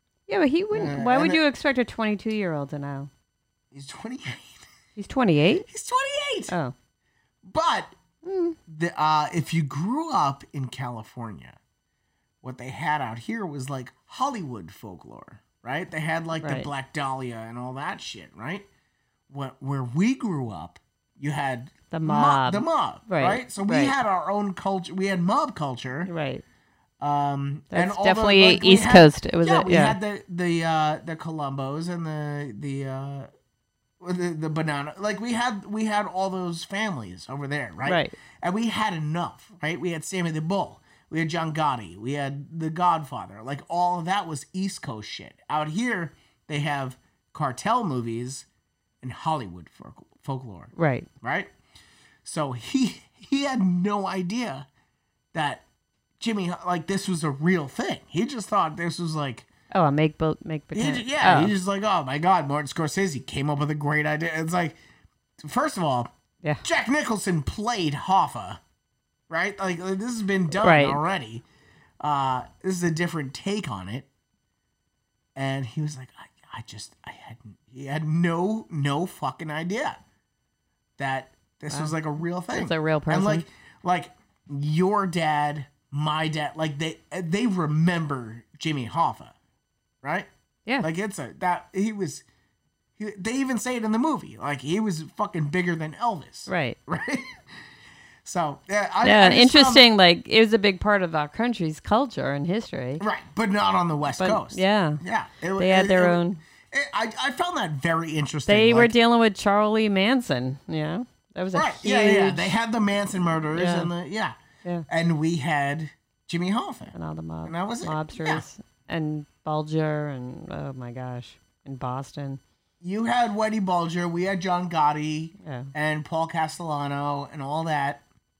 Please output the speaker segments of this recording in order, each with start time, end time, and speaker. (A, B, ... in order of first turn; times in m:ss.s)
0:00.3-0:03.1 A
0:00.7-0:01.4 B
0:03.7-0:04.6 B
0:05.0-0:05.6 A
0:05.7-0:06.5 B
0:06.5-0:06.7 A
0:07.4-0:08.0 B
0:08.2-0:08.6 A
0:08.7-0:11.6 B
0:12.4-0:18.7 B
0:16.4-0:16.7 A
0:19.3-0:26.1 B
0:21.9-0:23.9 A
0:26.0-0:26.4 A
0:27.0-0:33.3 B
0:27.7-0:30.0 A
0:34.0-0:48.4 B
0:37.8-0:38.1 A
0:49.0-0:51.5 B
0:50.7-0:51.1 A
0:52.2-0:54.7 B
0:55.3-0:55.6 B
0:56.2-0:59.5 B
0:59.7-1:01.5 A
1:00.7-1:04.8 B
1:05.4-1:06.1 B
1:06.6-1:08.6 B
1:09.3-1:11.4 B
1:10.6-1:11.0 A
1:12.0-1:14.1 B
1:15.4-1:20.0 B
1:21.0-1:29.3 B
1:22.5-1:23.4 A
1:30.0-1:30.3 B
1:30.8-1:32.2 B
1:33.0-1:37.4 B
1:36.5-1:36.8 A
1:38.2-1:39.8 B
1:39.0-1:43.0 A
1:43.0-1:48.9 B
1:44.1-1:45.0 A
1:45.6-1:46.4 A
1:48.5-1:52.5 A
1:51.5-1:54.4 B
1:53.5-1:53.9 A
1:54.9-1:56.9 B
1:56.9-2:02.4 A
1:57.4-1:58.4 B
2:02.8-2:08.0 B
2:05.4-2:05.7 A